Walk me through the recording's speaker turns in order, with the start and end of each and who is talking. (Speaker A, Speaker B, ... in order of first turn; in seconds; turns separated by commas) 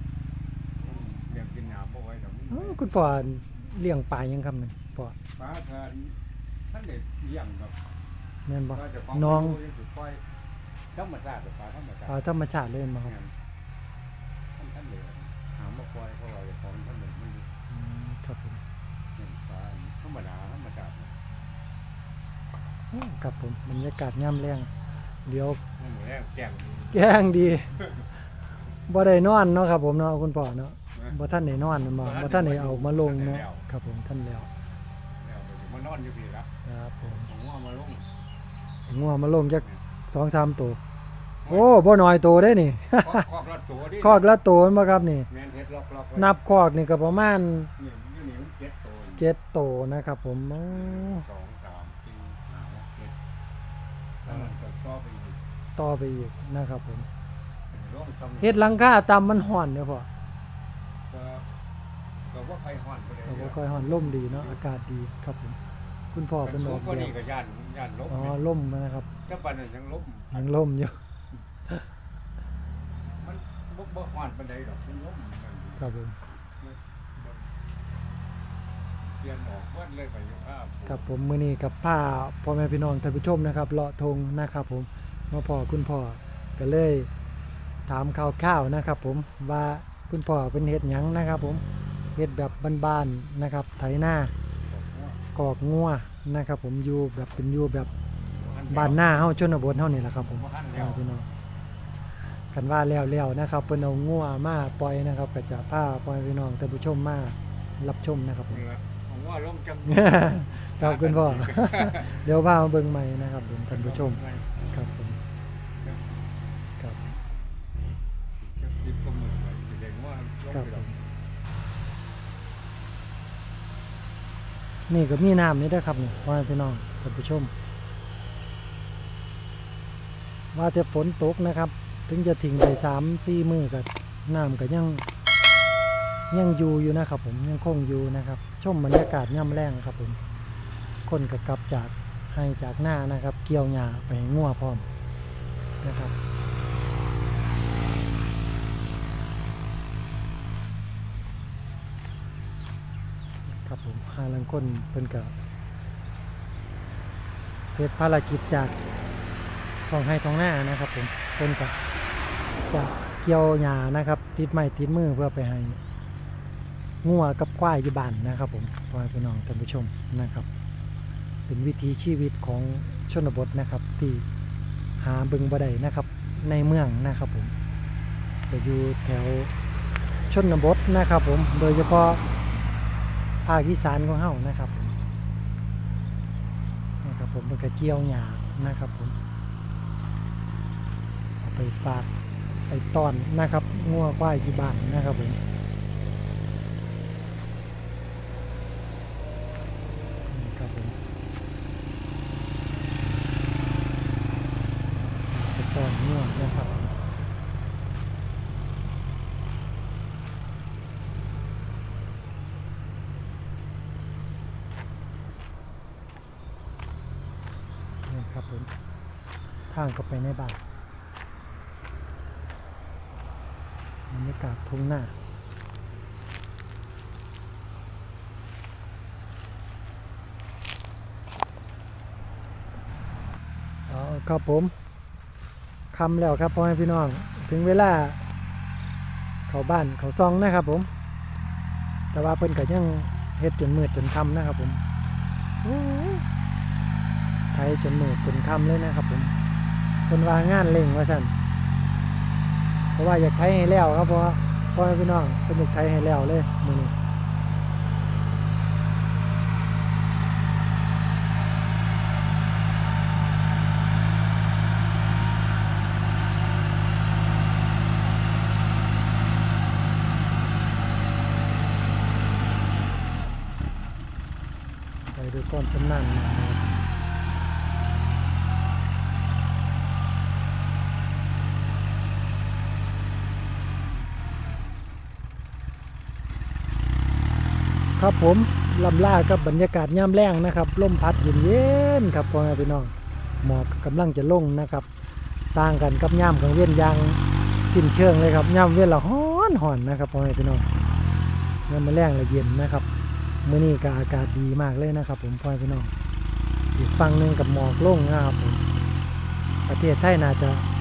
Speaker A: 0.8-2.8, Speaker B: 2.5-5.2, Speaker A: 5.4-6.2, Speaker A: 6.7-7.7, Speaker B: 8.5-9.6, Speaker A: 8.8-10.2, Speaker A: 10.9-12.1, Speaker B: 12.1-13.2, Speaker A: 14.6-17.5, Speaker B: 17.7-18.6, Speaker A: 19.2-21.1, Speaker B: 22.9-24.7, Speaker B: 25.2-25.6, Speaker A: 25.8-27.1, Speaker B: 26.9-27.8, Speaker B: 28.9-34.5, Speaker A: 32.0-33.6, Speaker A: 35.2-36.5, Speaker B: 36.6-37.3, Speaker A: 37.2-38.0, Speaker B: 38.9-40.8, Speaker B: 41.5-43.2, Speaker A: 43.0-44.3, Speaker B: 44.0-45.3, Speaker A: 45.3-46.3, Speaker B: 46.1-47.7, Speaker A: 47.8-49.2, Speaker B: 49.1-51.2, Speaker A: 50.8-53.1, Speaker B: 54.2-54.5, Speaker A: 54.2-55.4, Speaker B: 55.8-57.1, Speaker A: 57.7-58.6, Speaker B: 58.4-60.1, Speaker A: 61.1-61.4, Speaker A: 62.3-64.6, Speaker B: 63.2-65.6, Speaker B: 66.1-67.2, Speaker A: 66.4-68.4, Speaker B: 68.1-69.1, Speaker A: 69.3-70.4, Speaker B: 70.3-71.0, Speaker A: 73.2-75.8, Speaker B: 75.8-76.2, Speaker A: 79.0-81.0, Speaker B: 80.8-87.1, Speaker B: 87.9-91.6, Speaker B: 92.1-94.3, Speaker A: 94.7-95.2, Speaker B: 95.3-97.9, Speaker A: 98.4-99.2, Speaker B: 98.7-101.3, Speaker A: 100.4-101.0, Speaker B: 102.5-108.6, Speaker A: 108.5-112.2, Speaker B: 109.8-115.2, Speaker A: 113.7-114.4, Speaker A: 118.4-120.9, Speaker B: 120.5-121.0, Speaker B: 124.9-127.5, Speaker B: 130.5-135.0, Speaker B: 136.3-140.2, Speaker B: 141.1-144.9, Speaker B: 145.8-146.1, Speaker B: 153.5-155.3, Speaker B: 157.7-158.8, Speaker B: 159.8-161.7, Speaker B: 162.7-165.8, Speaker B: 167.0-170.5, Speaker B: 171.5-174.3, Speaker B: 175.0-177.5, Speaker B: 178.5-179.5, Speaker B: 180.3-182.2, Speaker B: 183.4-185.0, Speaker B: 187.0-189.2, Speaker B: 191.4-192.1, Speaker B: 192.7-195.4, Speaker B: 200.3-201.0, Speaker B: 205.3-206.9, Speaker B: 218.1-218.7, Speaker B: 219.7-220.6, Speaker B: 224.1-225.1, Speaker B: 233.9-234.7, Speaker B: 235.9-238.2, Speaker B: 239.5-240.9, Speaker B: 242.1-244.8, Speaker B: 245.6-246.2, Speaker B: 247.5-249.3, Speaker B: 250.1-251.3, Speaker B: 252.9-256.9, Speaker B: 275.1-276.9, Speaker B: 288.0-294.9, Speaker B: 295.5-300.7, Speaker B: 301.7-302.9, Speaker B: 303.4-305.9, Speaker B: 306.7-308.6, Speaker B: 309.7-310.6